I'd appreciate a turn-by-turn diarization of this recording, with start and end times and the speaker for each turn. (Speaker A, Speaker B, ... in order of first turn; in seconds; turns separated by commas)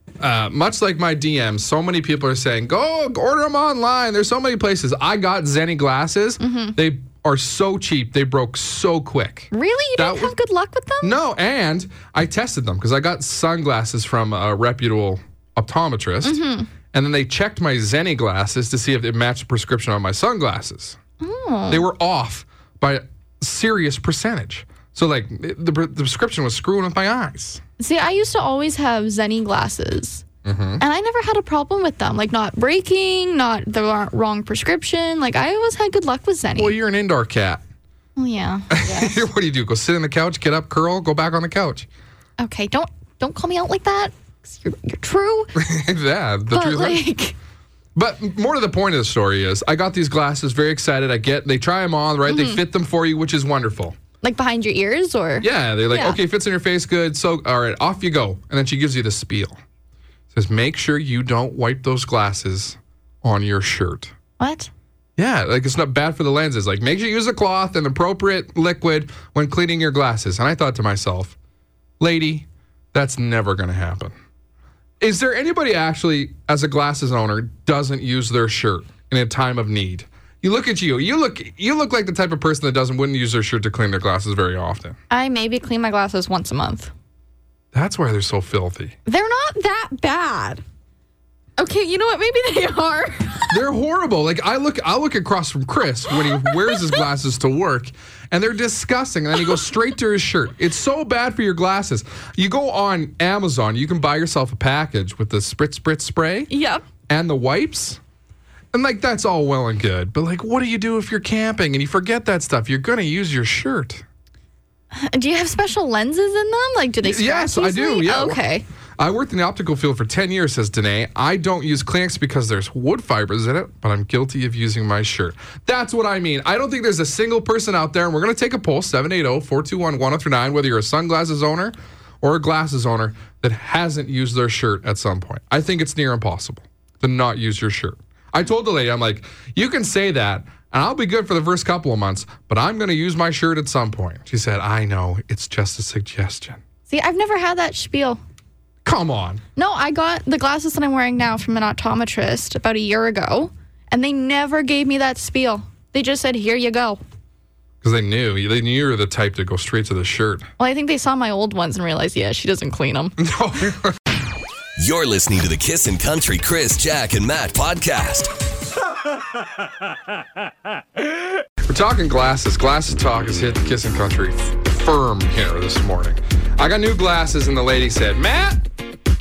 Speaker A: 0.2-10.3, Speaker B: 6.4-6.8, Speaker B: 9.5-11.2, Speaker A: 11.0-21.0, Speaker B: 16.2-16.7, Speaker B: 21.2-21.9, Speaker A: 21.7-27.6, Speaker B: 27.8-30.2, Speaker A: 30.4-30.8, Speaker B: 30.8-36.8, Speaker A: 36.6-37.6, Speaker B: 38.2-39.1, Speaker A: 38.7-41.9, Speaker B: 42.4-45.6, Speaker A: 45.6-47.0, Speaker B: 46.5-47.4, Speaker A: 48.0-54.0, Speaker B: 52.3-52.6, Speaker B: 54.2-56.2, Speaker A: 55.4-59.6, Speaker A: 60.3-64.1, Speaker B: 64.4-64.7, Speaker A: 65.2-71.4, Speaker A: 72.0-74.1, Speaker A: 75.0-85.0, Speaker B: 85.1-86.9, Speaker A: 87.7-89.0, Speaker B: 89.1-90.6, Speaker B: 91.6-93.6, Speaker A: 93.5-106.5, Speaker B: 106.5-106.8, Speaker A: 107.1-108.0, Speaker A: 108.7-114.0, Speaker B: 114.9-118.6, Speaker A: 117.0-118.4, Speaker A: 119.0-146.6, Speaker B: 146.9-148.2, Speaker A: 148.8-149.4, Speaker B: 149.6-157.0, Speaker A: 157.8-160.5, Speaker B: 160.6-163.2, Speaker A: 163.2-164.0, Speaker C: 164.8-168.3, Speaker A: 171.6-178.6